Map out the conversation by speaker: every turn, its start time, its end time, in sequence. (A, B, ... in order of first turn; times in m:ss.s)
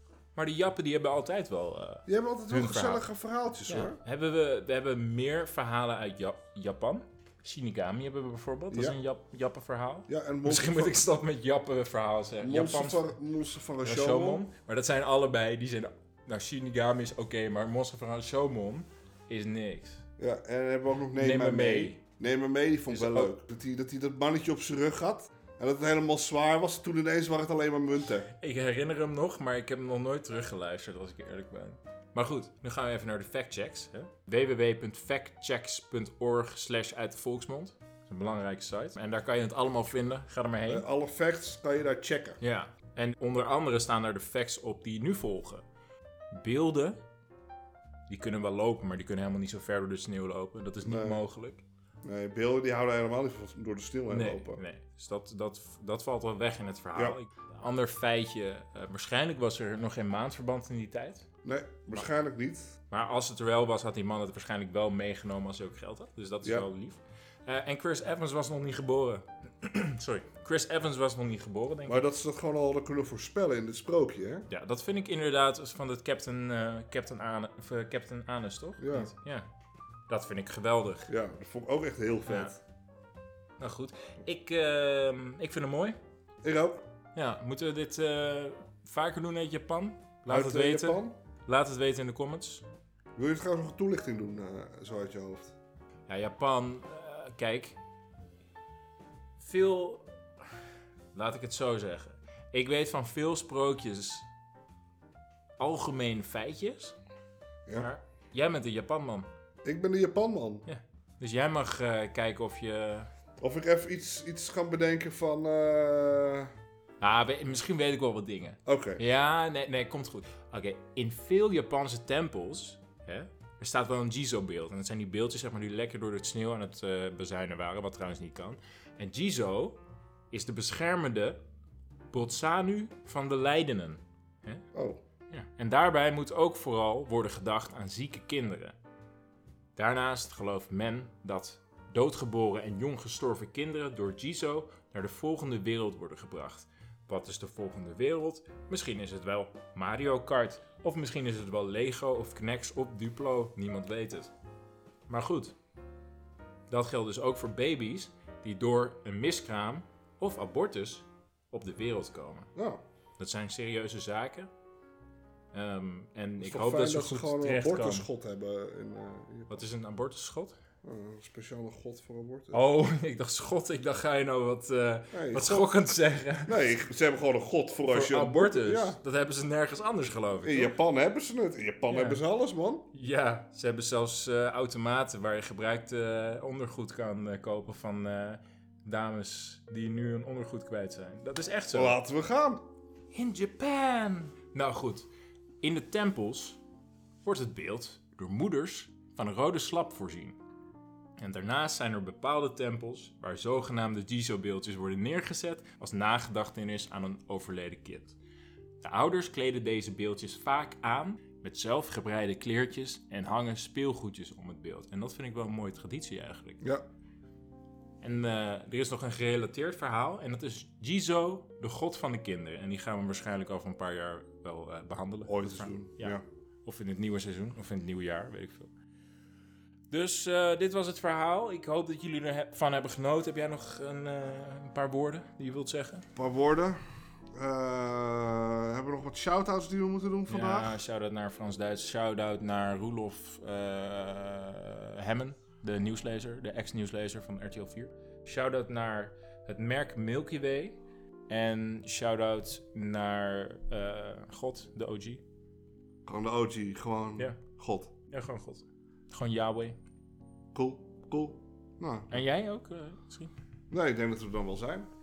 0:00.4-0:03.0 A
0:02.0-0:04.0 B
0:03.6-0:13.1 A
0:08.7-0:09.0 B
0:10.1-0:11.1 B
0:12.4-0:14.4 B
0:13.8-0:20.0 A
0:20.2-0:28.3 B
0:21.2-0:22.0 A
0:22.9-0:23.3 A
0:28.3-0:40.8 A
0:40.7-0:42.4 B
0:42.4-0:45.6 A
0:46.3-0:47.0 A
0:48.1-0:51.6 A
0:50.8-0:51.2 B
0:52.0-0:54.6 B
0:54.1-1:01.2 A
1:01.4-1:02.8 B
1:02.9-1:12.0 A
1:11.9-1:14.5 B
1:14.5-1:19.5 A
1:18.8-1:19.1 B
1:20.1-1:21.1 A
1:21.1-1:22.6 B
1:22.3-1:22.5 A
1:23.6-1:26.0 A
1:26.4-1:26.8 B
1:27.1-1:32.6 A
1:30.3-1:31.2 B
1:33.2-1:35.5 B
1:36.1-1:37.8 A
1:39.4-1:40.1 A
1:41.1-1:44.3 A
1:45.6-1:47.0 A
1:47.7-1:49.3 A
1:49.6-1:50.6 B
1:50.6-1:53.1 A
1:53.4-1:56.5 B
1:57.0-2:11.4 A
1:58.6-1:59.0 B
2:12.1-2:14.6 A
2:14.7-2:15.0 B
2:15.3-2:18.8 A
2:19.8-2:34.3 A
2:35.1-2:35.5 A
2:36.7-2:42.5 A
2:42.5-2:42.8 B
2:43.2-2:44.5 A
2:45.5-2:48.1 A
2:46.4-2:49.6 B
2:49.5-2:50.6 A
2:50.8-2:52.6 B
2:52.5-2:56.5 A
2:55.1-2:55.8 B
2:56.4-2:59.0 B
2:57.9-3:00.8 A
3:00.4-3:02.9 B
3:01.9-3:02.2 A
3:02.9-3:12.0 A
3:11.7-3:12.7 B
3:13.1-3:15.1 A
3:15.6-3:16.6 A
3:17.2-3:20.4 A
3:21.2-3:28.2 A
3:28.8-3:36.6 A
3:38.0-3:48.7 A
3:45.3-3:46.2 B
3:49.9-3:56.0 A
3:56.2-3:56.8 B
3:57.4-4:00.8 B
4:00.3-4:15.2 A
4:16.0-4:17.9 B
4:18.1-4:19.8 A
4:20.5-4:22.1 B
4:22.1-4:23.3 A
4:23.7-4:24.9 B